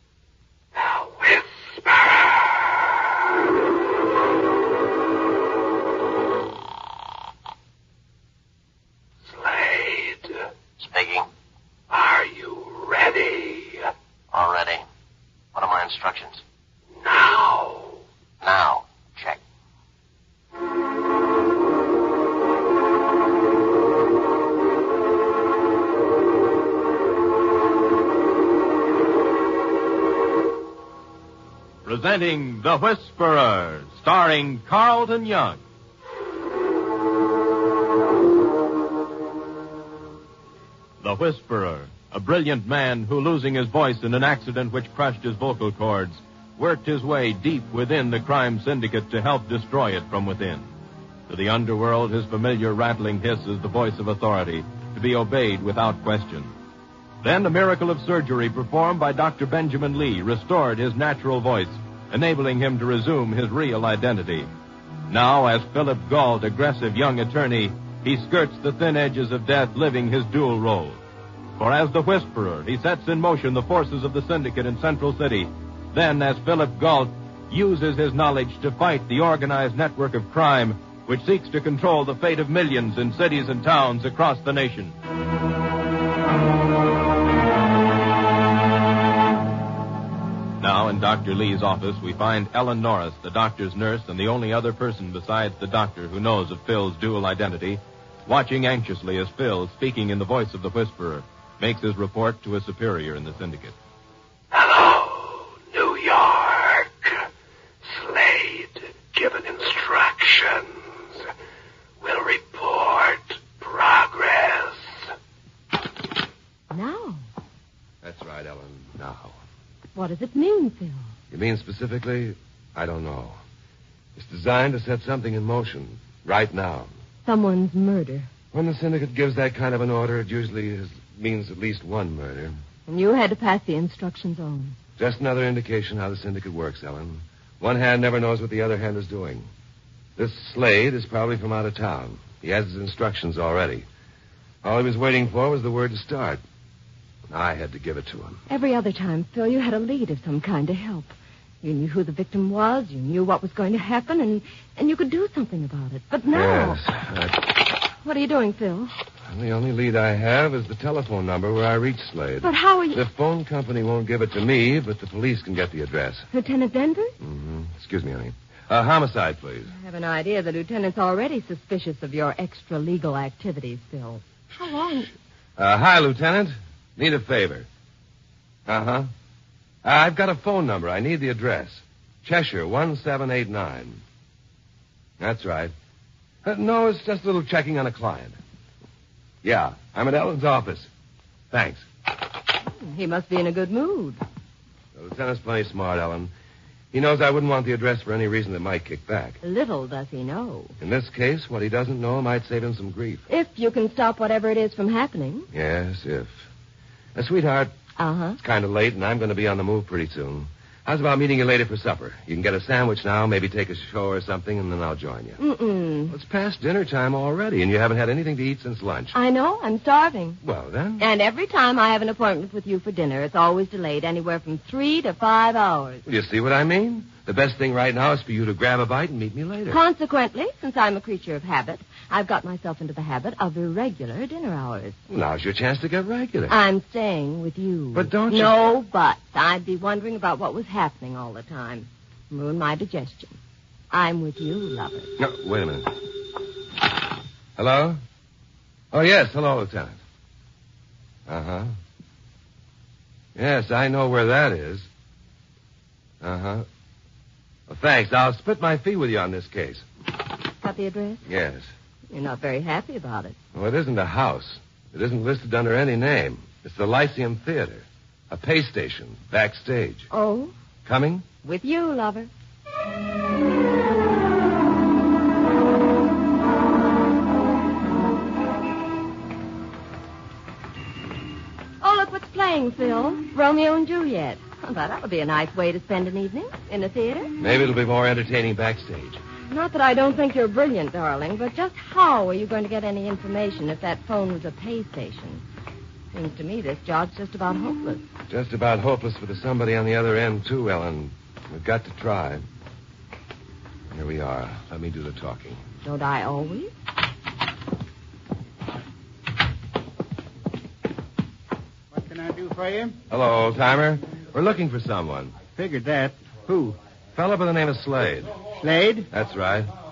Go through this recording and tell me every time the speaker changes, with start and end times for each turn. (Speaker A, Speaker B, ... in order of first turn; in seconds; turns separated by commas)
Speaker A: 0.8-2.6, Speaker A: 9.3-10.4, Speaker B: 10.8-11.3, Speaker A: 11.9-13.9, Speaker B: 14.3-14.8, Speaker B: 15.5-16.4, Speaker A: 17.0-18.0, Speaker B: 18.4-19.4, Speaker C: 31.9-35.6, Speaker C: 41.0-50.6, Speaker C: 51.3-56.5, Speaker C: 57.2-64.5, Speaker C: 65.1-71.0, Speaker C: 71.6-84.9, Speaker C: 90.6-103.8, Speaker A: 104.5-107.2, Speaker A: 107.8-110.7, Speaker A: 112.0-114.9, Speaker D: 116.7-117.2, Speaker E: 118.0-119.4, Speaker D: 120.0-121.1, Speaker E: 121.3-123.4, Speaker E: 124.2-126.9, Speaker D: 127.2-128.3, Speaker E: 128.5-132.6, Speaker D: 132.9-134.8, Speaker E: 135.0-139.5, Speaker E: 140.2-143.9, Speaker E: 144.6-146.4, Speaker E: 147.3-148.4, Speaker D: 148.5-156.8, Speaker E: 156.3-157.5, Speaker D: 158.0-158.9, Speaker E: 159.3-166.3, Speaker D: 162.4-163.0, Speaker D: 166.3-167.1, Speaker E: 167.2-169.7, Speaker D: 169.7-175.1, Speaker E: 175.6-177.7, Speaker E: 178.7-179.1, Speaker E: 179.8-184.0, Speaker E: 185.2-185.7, Speaker E: 186.4-188.4, Speaker E: 189.4-190.9, Speaker E: 191.5-191.9, Speaker D: 192.7-194.2, Speaker E: 194.9-196.3, Speaker E: 196.9-199.4, Speaker D: 199.4-200.8, Speaker E: 200.8-203.3, Speaker D: 203.3-205.5, Speaker E: 205.5-206.4, Speaker E: 207.2-207.7, Speaker D: 208.0-208.4, Speaker E: 208.4-215.4, Speaker D: 215.4-216.1, Speaker E: 216.1-219.2, Speaker D: 219.1-220.4, Speaker E: 220.4-221.1, Speaker D: 221.0-226.0, Speaker E: 226.1-229.8, Speaker D: 229.7-235.0, Speaker E: 235.1-236.6, Speaker D: 236.5-243.4, Speaker E: 237.9-238.7, Speaker D: 243.9-245.1, Speaker E: 245.2-245.9, Speaker E: 247.6-248.0, Speaker E: 248.9-250.0, Speaker E: 251.3-251.7, Speaker E: 253.3-254.9, Speaker E: 256.2-256.7, Speaker E: 257.7-259.8, Speaker D: 260.6-261.2, Speaker E: 261.3-261.7, Speaker D: 262.1-263.4, Speaker E: 263.5-270.1, Speaker D: 270.1-270.5, Speaker E: 270.9-271.3, Speaker D: 271.4-272.3, Speaker D: 281.8-287.4, Speaker E: 287.4-289.2, Speaker D: 289.5-295.4, Speaker D: 296.1-298.1, Speaker E: 298.3-302.5, Speaker E: 303.9-305.6, Speaker D: 305.8-306.7, Speaker F: 311.9-313.0, Speaker E: 313.1-315.3, Speaker F: 315.5-316.8, Speaker E: 317.1-318.4, Speaker F: 318.4-319.1, Speaker E: 319.1-319.7